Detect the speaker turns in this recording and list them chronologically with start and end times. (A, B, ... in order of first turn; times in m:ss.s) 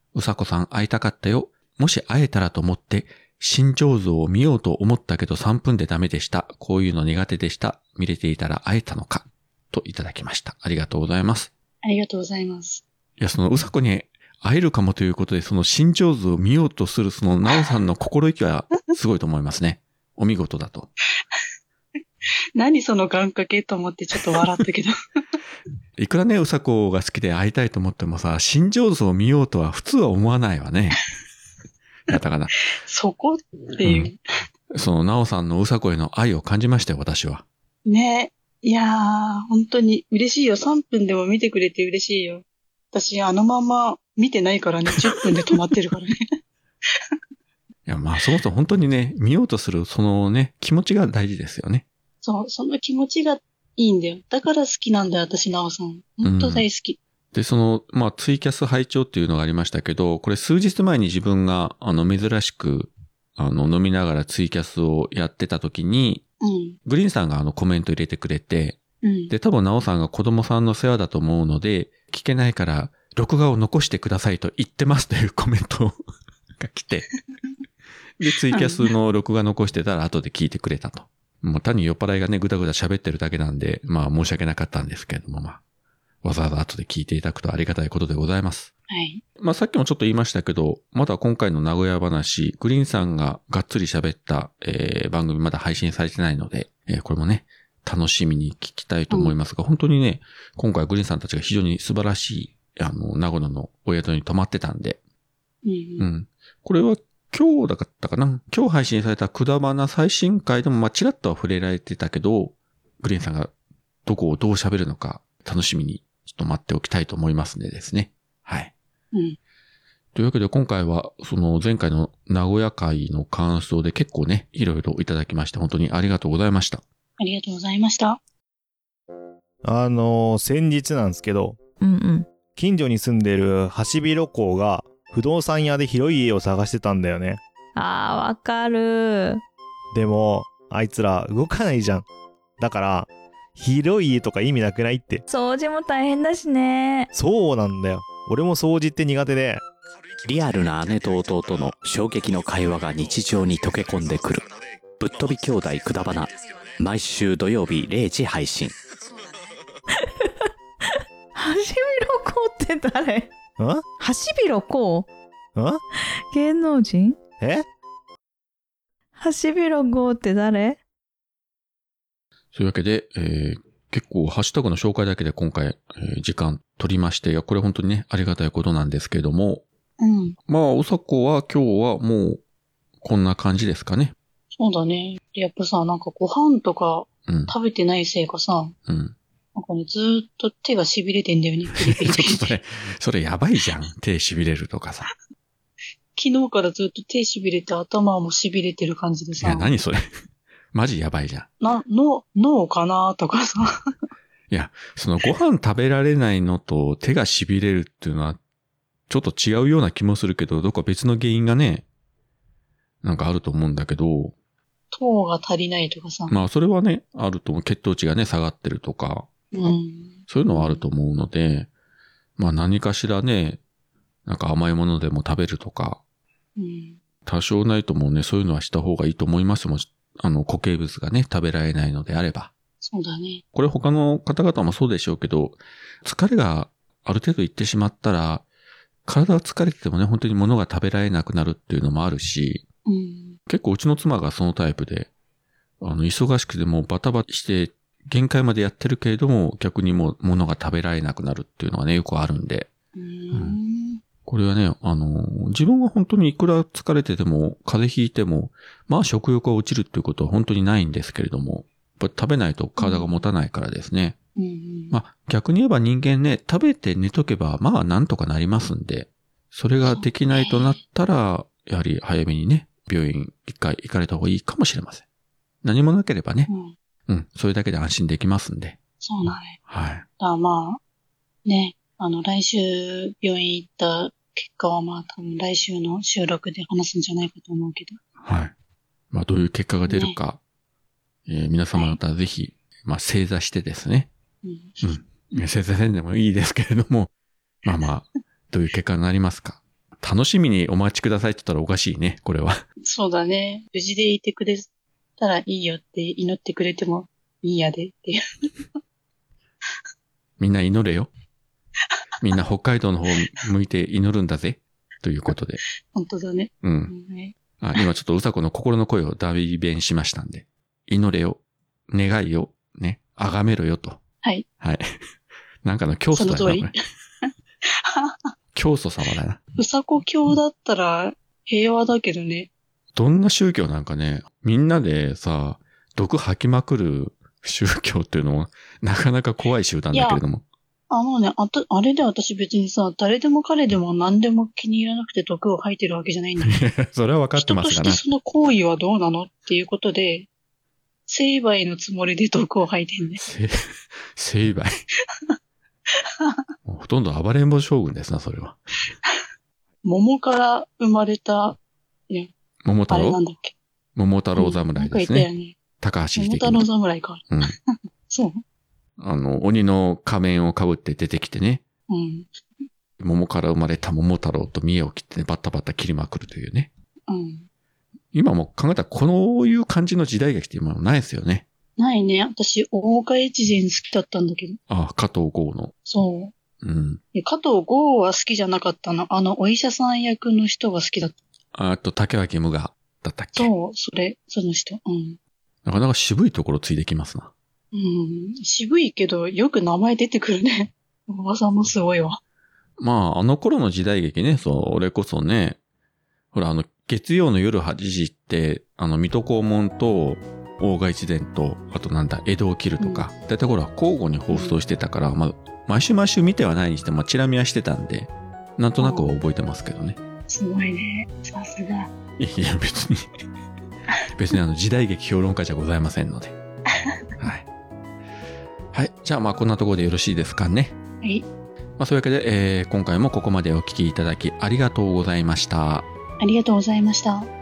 0:00.1-0:11.5 A
0:11.8-0:12.8 B
0:13.2-0:20.9 A
0:22.6-0:24.9 B
0:26.0-0:31.0 A
0:32.1-0:32.5 A
0:32.8-0:34.2 B
0:33.8-0:34.1 A
0:34.7-0:37.4 A
0:37.9-0:46.2 B
0:47.9-0:51.8 A
0:52.2-0:57.0 B
0:56.2-0:56.6 A
0:57.3-1:06.2 A
1:06.4-1:06.8 B
1:06.8-1:16.0 A
1:09.0-1:09.3 B
1:16.6-1:17.1 A
1:18.2-1:25.6 A
1:18.5-1:18.9 B
1:26.2-1:28.7 A
1:28.9-1:29.2 B
1:29.4-1:45.0 A
1:39.1-1:39.4 B
1:45.6-1:46.1 B
1:46.0-1:53.5 A
1:54.1-1:58.7 A
1:59.1-1:59.4 B
2:00.1-2:06.8 A
2:07.2-2:08.2 B
2:09.6-2:11.6 C
2:11.8-2:12.3 D
2:12.5-2:17.4 C
2:17.8-2:19.4 D
2:19.9-2:22.1 C
2:22.6-2:25.2 C
2:25.3-2:27.1 D
2:27.1-2:29.6 C
2:30.2-2:34.5 E
2:35.0-2:38.8 E
2:41.4-2:43.3 D
2:43.6-2:43.9 C
2:43.9-2:45.1 D
2:45.6-2:45.8 C
2:46.3-2:47.2 D
2:47.4-2:47.7 C
2:49.2-2:50.8 D
2:52.5-2:59.6 A
3:00.0-3:00.4 B
3:00.5-3:02.4 A
3:03.0-3:04.2 A
3:04.6-3:08.8 B
3:07.3-3:07.5 A
3:08.9-3:09.2 A
3:09.6-3:12.5 B
3:11.8-3:15.1 A
3:16.2-3:19.7 B
3:19.4-3:20.1 A
3:20.7-3:21.5 A
3:21.6-3:23.7 B
3:24.5-3:28.4 A
3:29.1-3:31.9 A
3:33.0-3:34.3 A
3:34.9-3:36.4 B
3:36.3-3:39.3 A
3:39.5-3:40.8 B
3:40.3-3:41.7 A
3:42.4-3:43.6 A
3:44.3-3:46.0 A
3:46.6-3:47.0 B
3:47.3-3:52.5 A
3:52.8-3:53.4 B
3:53.5-3:58.5 A
3:59.1-4:02.6 A
4:02.9-4:03.4 B
4:03.5-4:05.1 A
4:05.8-4:12.7 A
4:13.0-4:14.0 B
4:14.3-4:24.2 A
4:22.8-4:23.2 B
4:24.4-4:25.0 B
4:24.9-4:35.0 A
4:29.9-4:30.8 B
4:35.6-4:36.5 A
4:36.5-4:36.8 B
4:37.1-4:38.8 A
4:39.0-4:39.6 B
4:39.7-4:40.1 A
4:40.2-4:40.8 B
4:41.4-4:48.0 B
4:48.2-4:48.5 A
4:49.1-4:50.4 A
4:49.9-4:50.2 B
4:51.3-4:54.1 A
4:54.4-4:54.8 B
4:54.8-4:57.1 A
4:57.6-5:02.6 A
5:02.8-5:04.7 B
5:05.2-5:08.2 B
5:10.4-5:11.1 A
5:12.2-5:15.6 A
5:15.9-5:17.8 B
5:16.6-5:16.9 A
5:17.6-5:24.0 A
5:24.6-5:25.0 A
5:25.6-5:26.7 A
5:26.1-5:26.7 B
5:27.8-5:28.2 B
5:28.5-5:29.4 A
5:29.6-5:32.5 B
5:32.9-5:40.4 A
5:39.9-5:40.2 B
5:40.9-5:46.6 B
5:46.4-5:48.0 A
5:47.4-5:50.3 B
5:51.1-5:53.2 B
5:53.2-5:54.8 A
5:56.6-5:58.6 A
5:59.8-6:02.3 B
6:02.6-6:03.2 A
6:02.9-6:03.6 B
6:04.0-6:06.7 A
6:04.4-6:05.6 B
6:06.2-6:08.4 B
6:07.3-6:07.6 A
6:09.0-6:11.6 A
6:11.9-6:12.3 B
6:13.0-6:16.7 A
6:17.1-6:17.5 B
6:18.1-6:21.4 A
6:21.8-6:24.6 B
6:24.7-6:25.7 A
6:25.9-6:26.3 B
6:26.6-6:27.0 A
6:27.1-6:31.2 B
6:31.5-6:33.5 A
6:33.4-6:35.2 B
6:35.6-6:37.3 A
6:37.7-6:42.2 B
6:42.8-6:45.6 A
6:46.3-7:00.0 A
6:52.8-6:53.1 B
6:54.3-6:54.6 B
6:58.8-6:59.1 B
7:00.3-7:01.9 B
7:02.2-7:03.1 A
7:04.1-7:06.4 A
7:06.7-7:07.1 B
7:07.2-7:07.5 A
7:08.7-7:10.8 A
7:11.0-7:11.3 B
7:11.8-7:15.9 A
7:16.2-7:17.3 B